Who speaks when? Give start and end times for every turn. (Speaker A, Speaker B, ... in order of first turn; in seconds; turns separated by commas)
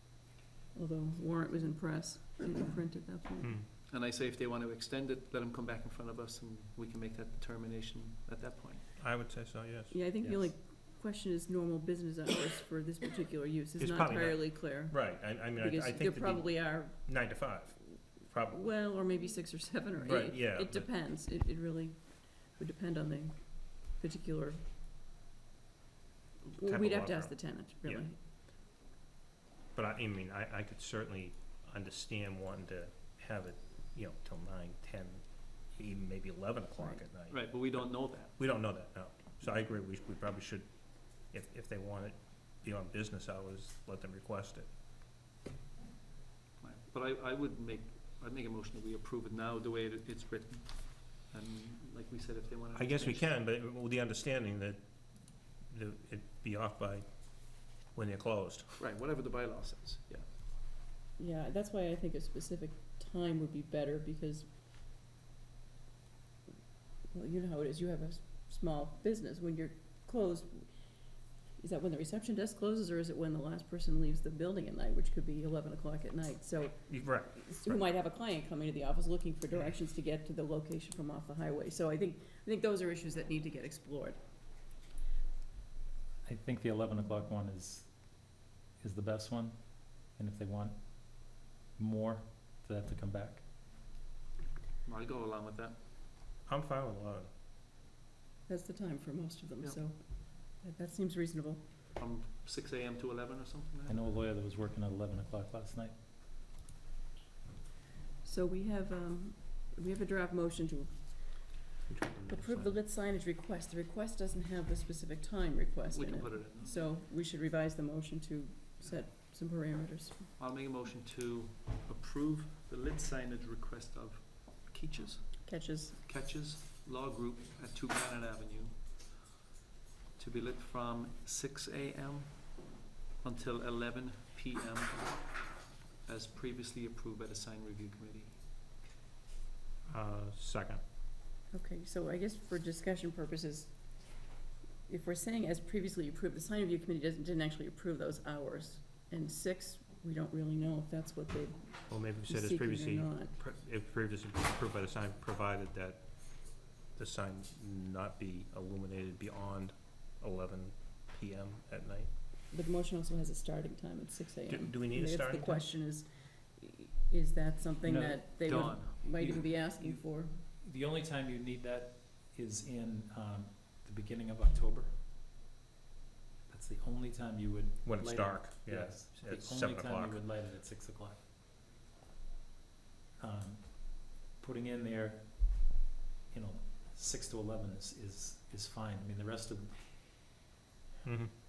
Speaker A: 0.7-3.5, Speaker B: 3.4-3.7, Speaker C: 3.9-8.8, Speaker B: 9.0-9.9, Speaker A: 9.9-16.9, Speaker D: 10.2-10.5, Speaker B: 13.8-18.7, Speaker A: 18.5-24.6, Speaker B: 20.0-20.9, Speaker A: 26.5-28.2, Speaker B: 26.6-28.1, Speaker B: 29.7-44.7, Speaker C: 37.3-38.4, Speaker C: 46.6-53.3, Speaker B: 52.7-54.8, Speaker B: 55.6-58.8, Speaker C: 58.8-60.2, Speaker A: 61.2-64.5, Speaker A: 67.1-70.7, Speaker A: 71.6-84.2, Speaker B: 76.9-77.8, Speaker D: 86.2-93.4, Speaker C: 94.8-95.8, Speaker B: 96.5-97.3, Speaker A: 98.5-101.6, Speaker C: 102.0-104.2, Speaker D: 103.9-106.0, Speaker A: 108.2-111.7, Speaker B: 111.9-112.8, Speaker A: 112.3-120.3, Speaker C: 115.9-116.9, Speaker C: 120.4-125.5, Speaker A: 125.5-126.0, Speaker C: 126.0-129.1, Speaker C: 130.2-138.4, Speaker B: 139.9-140.8, Speaker A: 141.5-144.3, Speaker A: 144.9-153.3, Speaker B: 151.9-162.1, Speaker A: 162.5-170.4, Speaker B: 164.5-165.7, Speaker D: 167.8-175.0, Speaker C: 168.4-169.4, Speaker D: 176.5-181.2, Speaker B: 177.8-180.2, Speaker D: 183.2-185.8, Speaker D: 186.3-190.1, Speaker B: 191.0-191.3